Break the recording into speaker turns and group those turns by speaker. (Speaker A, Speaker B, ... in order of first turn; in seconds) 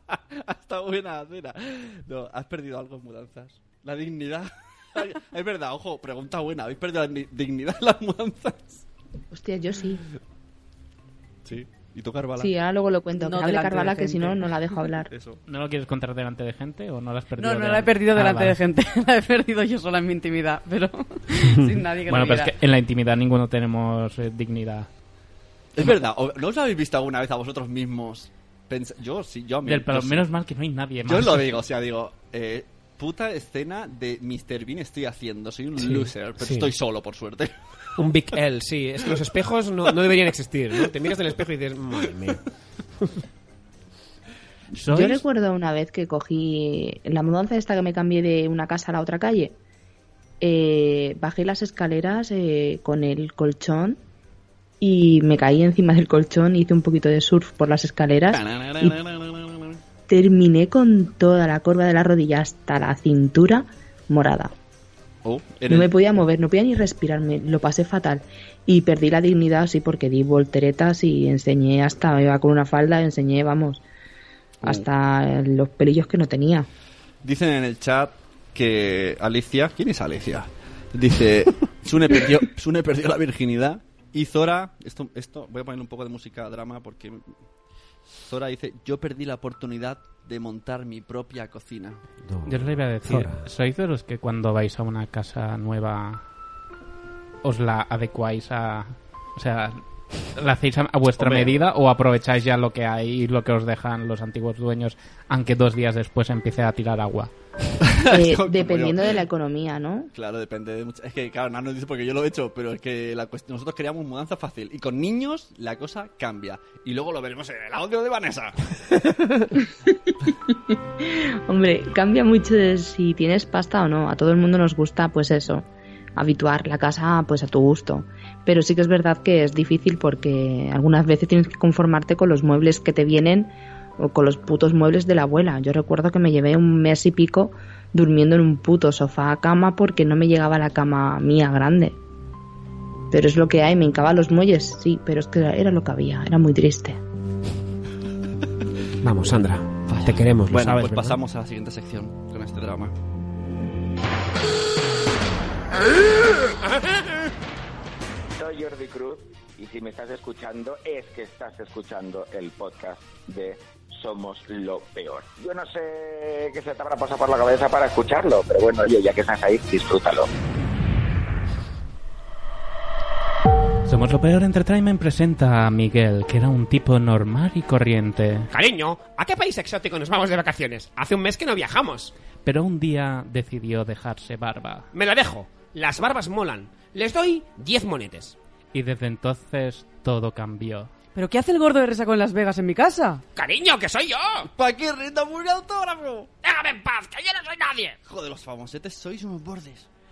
Speaker A: 0.3-8.8, 11.4-12.5, 15.1-15.4, 25.8-30.3, 31.1-37.5, 58.3-59.8, 65.2-65.9, 77.2-87.4, 88.2-92.0, 101.2-101.6, 107.9-109.0, 110.1-118.6, 149.9-152.9, 194.6-196.3, 198.1-199.9
Speaker B: 9.3-10.0, 12.4-15.1, 44.9-49.5, 50.4-54.0, 54.8-59.0, 60.1-64.5, 65.7-73.8, 74.6-76.7, 108.1-110.1, 121.0-125.7, 126.2-142.0, 143.1-147.0
Speaker C: 13.2-14.4, 17.4-22.5, 191.2-193.2
Speaker D: 15.5-18.6, 22.1-24.9, 29.6-31.6, 44.8-45.2, 92.5-96.2, 97.4-107.3, 173.9-178.5, 182.4-184.9, 188.7-190.9
Speaker E: 35.8-36.7, 38.0-42.4, 92.2-93.5, 149.0-151.2, 178.5-182.1, 184.9-188.3, 193.3-194.5, 196.4-198.0
Speaker F: 158.4-170.3